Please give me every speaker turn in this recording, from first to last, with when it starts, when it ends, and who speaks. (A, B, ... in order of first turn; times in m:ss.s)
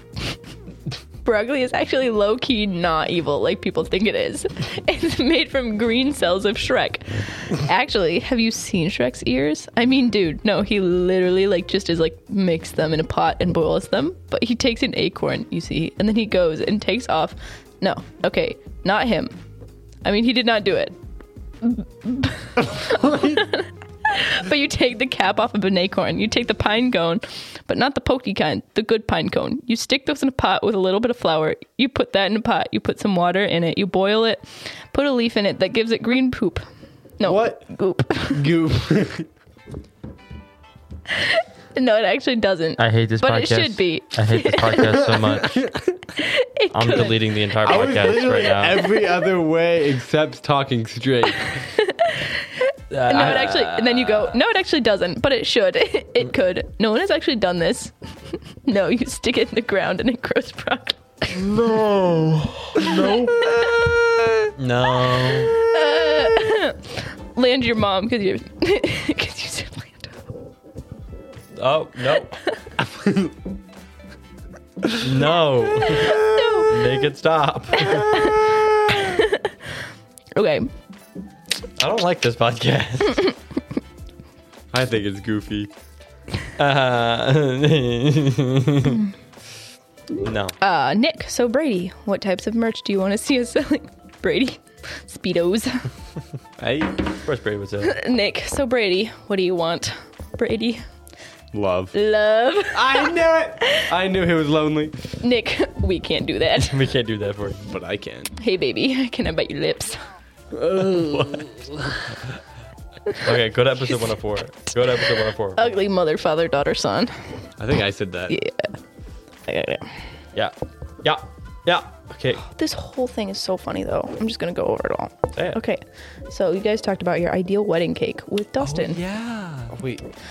0:01.2-0:19.3 A
0:20.0-0:21.0 A
0:21.6-0:36.6 A
0:22.7-0:23.4 B
0:37.2-0:38.5 A
0:37.2-0:37.7 B
0:38.3-0:39.3 B
0:41.1-0:45.1 A
0:42.8-0:45.6 C
0:44.8-0:45.8 B
0:46.2-0:47.2 A
0:46.7-0:48.9 C
0:47.6-0:51.6 B
0:51.5-1:01.5 A
0:52.9-0:54.4 C
1:01.9-1:03.7 B
1:02.8-1:03.4 C
1:02.9-1:03.5 A
1:04.6-1:05.6 C
1:05.1-1:10.3 A
1:11.6-1:12.3 C
1:12.8-1:13.3 B
1:15.0-1:18.1 C
1:15.9-1:16.8 A
1:17.8-1:19.5 A
1:20.3-1:20.7 A
1:21.8-1:23.3 C
1:24.7-1:25.7 B
1:26.6-1:29.0 C
1:30.2-1:30.6 C
1:30.6-1:35.9 A
1:36.6-1:37.0 B
1:37.2-1:38.0 C
1:37.8-1:40.8 A
1:41.5-1:42.0 B
1:41.9-1:43.8 A
1:42.7-1:45.0 B
1:45.2-1:46.8 A
1:46.6-1:47.7 C
1:47.7-1:48.3 B
1:48.4-1:50.1 A
1:50.5-1:52.0 B
1:51.0-1:51.5 C
1:53.2-1:55.7 C
1:55.6-1:57.1 A
1:57.6-1:58.4 B
1:58.3-1:58.8 A
1:59.5-1:59.9 A
2:00.4-2:02.4 C
2:02.4-2:09.0 A
2:08.6-2:09.7 C
2:09.7-2:10.0 B